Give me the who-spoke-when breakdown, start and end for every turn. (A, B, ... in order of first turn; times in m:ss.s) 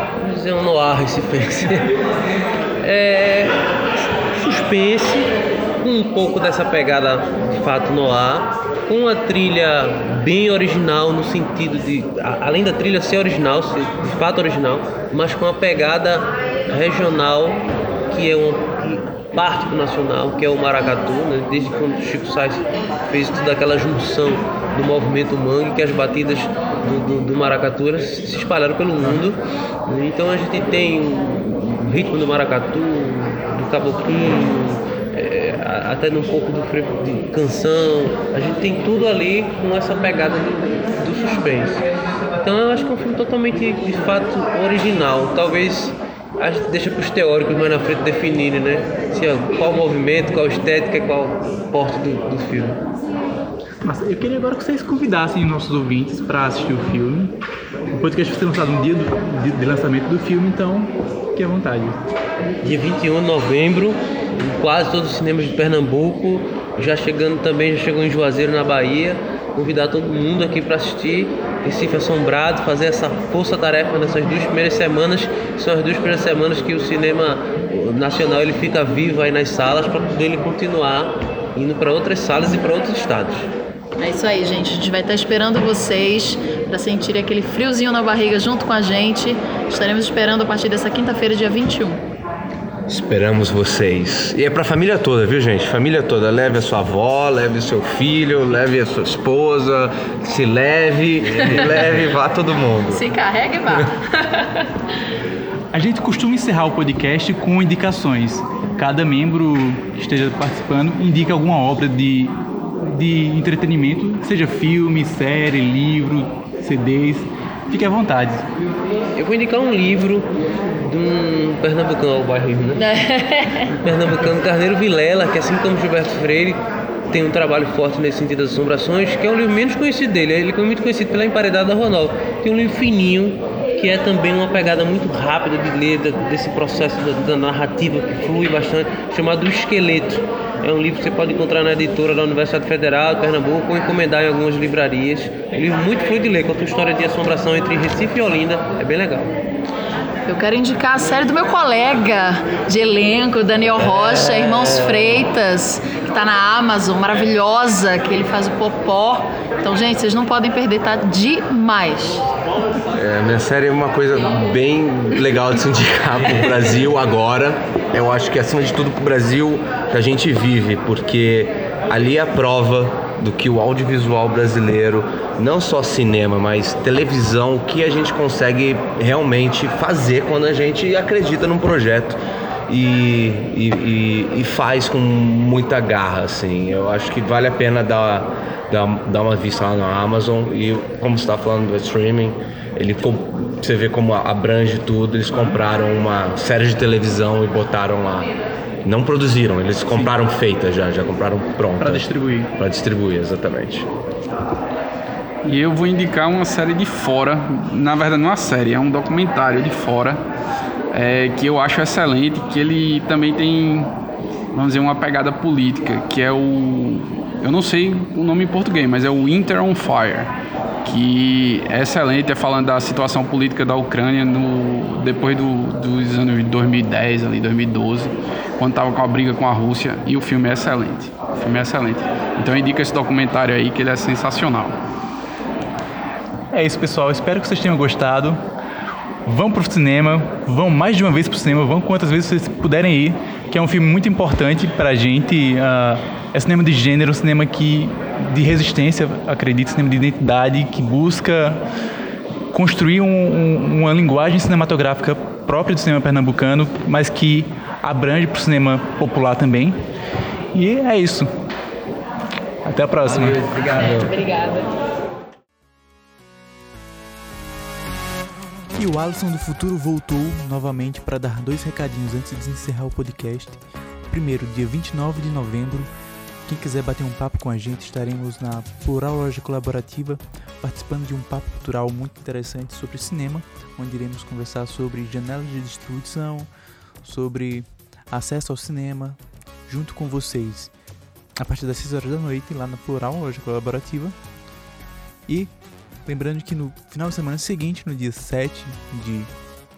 0:00.2-0:02.0 A
0:02.8-0:52.8 A
0:53.8-0:57.4 B
0:57.9-1:02.0 B
1:02.6-1:23.5 A
1:24.0-1:32.0 C
1:32.9-1:43.0 D
1:41.4-1:41.7 C
1:42.9-1:44.7 C
1:45.7-1:58.5 B
1:59.2-2:02.8 A
2:02.8-2:03.8 C
2:03.7-2:29.3 A
2:30.3-2:42.2 C
2:34.2-2:35.0 A
2:42.9-3:23.9 D
3:21.8-3:22.5 B
3:25.4-3:30.2 E
3:30.9-3:33.9 E
3:34.5-3:40.3 E
3:40.8-3:54.8 E
3:56.5-3:58.4 B
3:59.2-4:11.6 B
4:12.5-4:19.8 B
4:20.5-4:21.3 B
4:22.6-4:23.4 B
4:23.0-4:24.2 D
4:23.8-4:24.7 C
4:28.8-4:35.9 B
4:36.5-4:46.5 B
4:47.0-4:50.7 B
4:51.4-4:54.2 B
4:56.1-4:59.3 B